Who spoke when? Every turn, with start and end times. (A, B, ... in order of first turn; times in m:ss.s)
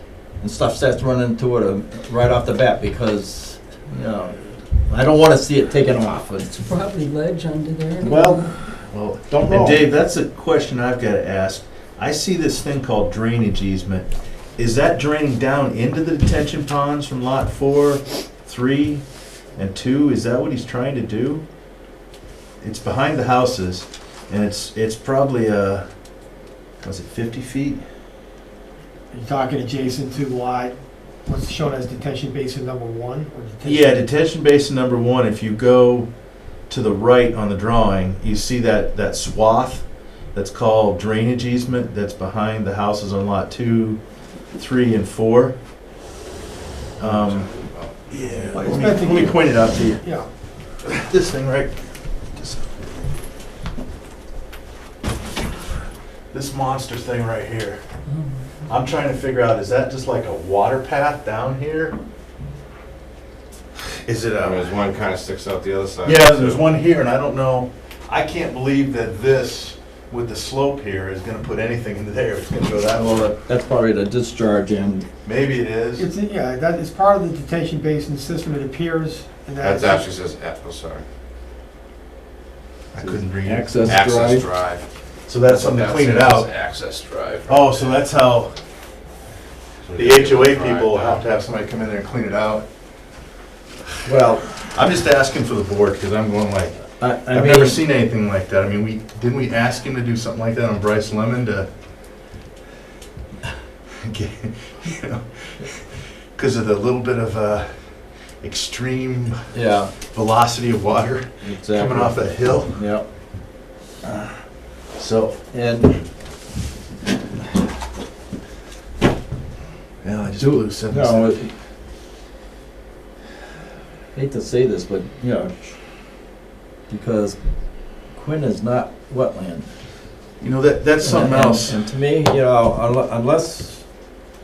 0:00.3-0:06.5 A
0:06.5-0:08.5 B
0:08.0-0:08.7 A
0:08.7-0:19.0 C
0:09.3-0:09.8 A
0:19.6-0:21.4 C
0:22.6-0:25.8 C
0:26.8-0:27.8 C
0:29.1-0:34.0 D
0:33.6-0:36.1 C
0:36.7-0:44.0 C
0:44.5-0:45.5 C
0:47.0-0:48.0 E
0:47.0-0:47.5 C
0:48.1-0:50.0 C
0:48.5-0:50.3 D
0:50.8-0:51.8 C
0:52.3-0:52.9 C
0:56.3-0:57.8 C
0:58.1-0:58.5 B
0:58.7-1:02.0 C
1:04.0-1:04.8 C
1:04.4-1:06.6 E
1:06.0-1:13.3 C
1:12.9-1:15.1 A
1:15.2-1:16.1 C
1:16.0-1:20.0 D
1:19.6-1:21.0 E
1:22.9-1:24.0 C
1:23.0-1:24.4 A
1:23.9-1:24.9 E
1:25.3-1:26.5 C
1:25.4-1:28.0 E
1:27.5-1:28.5 C
1:29.8-1:31.2 E
1:29.9-1:32.6 C
1:34.0-1:34.6 A
1:34.6-1:41.7 C
1:37.0-1:37.8 A
1:44.0-1:49.4 C
1:49.5-1:49.9 A
1:50.0-1:52.8 C
1:51.4-1:53.0 A
1:54.0-1:54.4 C
1:55.0-1:55.4 C
1:55.5-1:56.0 A
2:00.0-2:01.4 C
2:00.4-2:01.5 A
2:04.1-2:05.8 A
2:06.9-2:09.7 A
2:10.4-2:11.8 C
2:11.0-2:14.1 A